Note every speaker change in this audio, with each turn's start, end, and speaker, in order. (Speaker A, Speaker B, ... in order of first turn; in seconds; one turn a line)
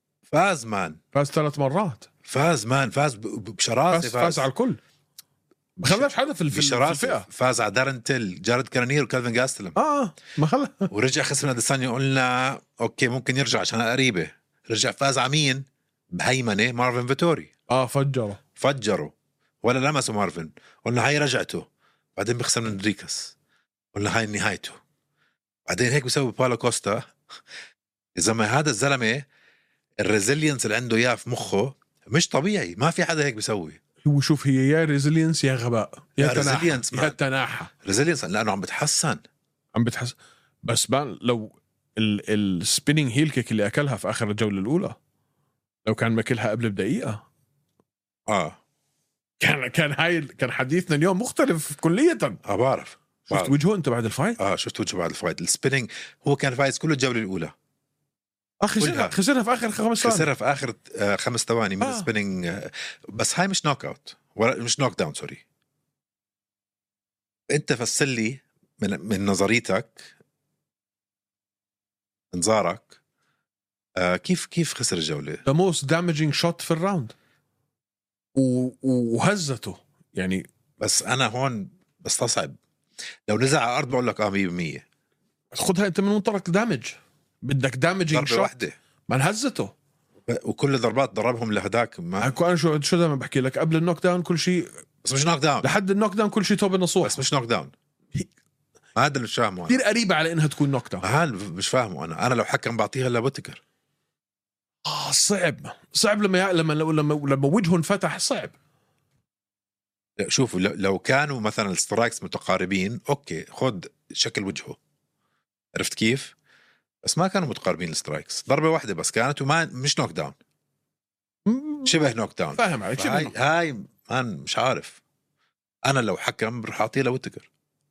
Speaker A: 0.3-1.0
Speaker B: 1.1-2.1
Speaker A: 2.2-4.5
Speaker B: 3.9-4.8
Speaker A: 5.8-9.8
Speaker B: 5.8-7.3
Speaker B: 9.8-10.9
Speaker A: 10.9-17.5
Speaker B: 17.7-18.4
Speaker A: 18.6-23.3
Speaker A: 23.9-24.8
Speaker A: 25.7-27.1
Speaker A: 28.1-29.2
Speaker A: 30.0-33.8
Speaker B: 34.0-37.7
Speaker A: 36.2-37.2
Speaker A: 37.8-39.2
Speaker B: 39.7-45.0
Speaker B: 45.8-47.2
Speaker A: 48.3-48.6
Speaker B: 49.4-52.4
Speaker A: 52.4-53.6
Speaker B: 53.3-54.4
Speaker A: 54.4-57.5
Speaker B: 58.6-60.3
Speaker A: 58.8-59.1
Speaker A: 60.0-65.4
Speaker B: 61.8-62.1
Speaker A: 67.5-70.1
Speaker A: 72.3-73.0
Speaker A: 74.0-75.4
Speaker B: 75.5-77.1
Speaker B: 78.3-80.5
Speaker A: 80.8-82.6
Speaker A: 83.3-84.8
Speaker B: 85.5-88.5
Speaker A: 88.1-88.8
Speaker B: 89.1-89.7
Speaker A: 90.2-92.3
Speaker B: 92.2-94.7
Speaker A: 95.0-95.7
Speaker B: 95.6-97.2
Speaker A: 97.0-97.7
Speaker A: 99.0-99.8
Speaker B: 99.7-101.0
Speaker A: 101.0-103.6
Speaker B: 104.8-108.5
Speaker A: 110.2-114.8
Speaker A: 115.7-116.3
Speaker A: 117.0-120.3
Speaker B: 121.5-121.9
Speaker A: 121.8-125.0
Speaker B: 122.5-123.3
Speaker A: 125.8-127.5